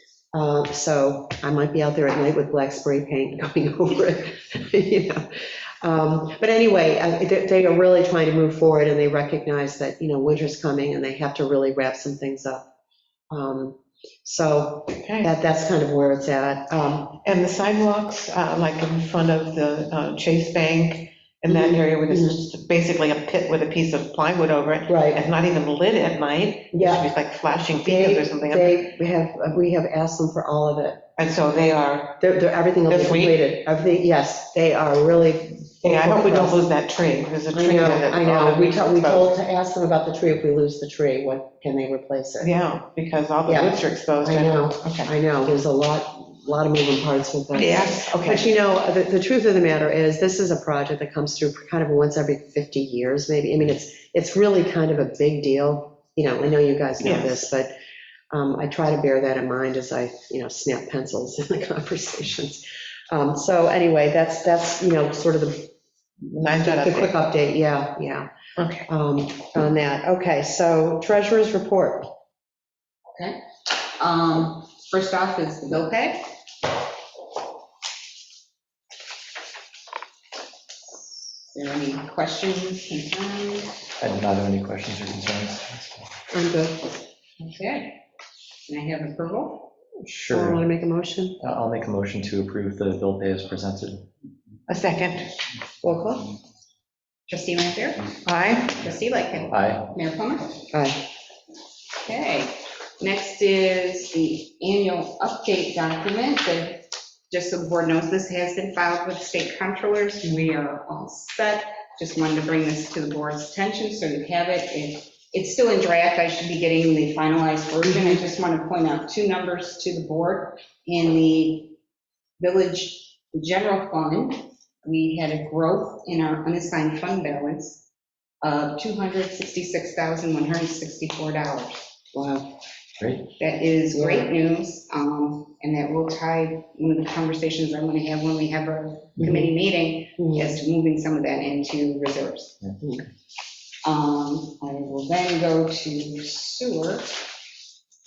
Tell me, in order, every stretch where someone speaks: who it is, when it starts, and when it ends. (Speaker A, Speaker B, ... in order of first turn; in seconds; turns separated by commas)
Speaker A: 0.3-5.3, Speaker A: 5.8-12.7, Speaker A: 13.3-17.2, Speaker B: 14.9-15.3, Speaker B: 17.2-28.8, Speaker A: 21.5-22.4, Speaker A: 24.9-25.2, Speaker A: 26.7-27.1, Speaker A: 27.8-31.0, Speaker B: 31.2-32.2, Speaker A: 32.2-36.6, Speaker B: 32.9-33.4, Speaker B: 35.8-39.3, Speaker A: 37.5-42.5, Speaker B: 42.4-45.1, Speaker A: 43.5-57.7, Speaker B: 47.5-48.5, Speaker B: 57.0-57.3, Speaker A: 58.3-65.7, Speaker B: 66.2-67.1, Speaker A: 66.6-68.3, Speaker B: 68.6-68.9, Speaker A: 68.9-72.1, Speaker C: 73.2-73.4, Speaker C: 74.0-76.3, Speaker C: 81.5-83.8, Speaker D: 84.0-86.1, Speaker A: 86.3-86.9, Speaker C: 87.4-88.0, Speaker C: 88.7-89.7, Speaker D: 90.0-90.6, Speaker A: 90.3-91.4, Speaker D: 91.4-94.1, Speaker B: 94.7-95.3, Speaker A: 95.8-96.3, Speaker C: 97.3-100.6, Speaker B: 98.2-98.8, Speaker D: 99.5-99.9, Speaker A: 100.7-101.0, Speaker C: 102.0-121.7, Speaker C: 122.4-127.8, Speaker C: 128.4-131.8, Speaker A: 132.1-132.5, Speaker D: 133.0-133.3, Speaker C: 133.4-142.6, Speaker A: 134.0-134.3, Speaker A: 140.2-140.5, Speaker C: 143.8-147.2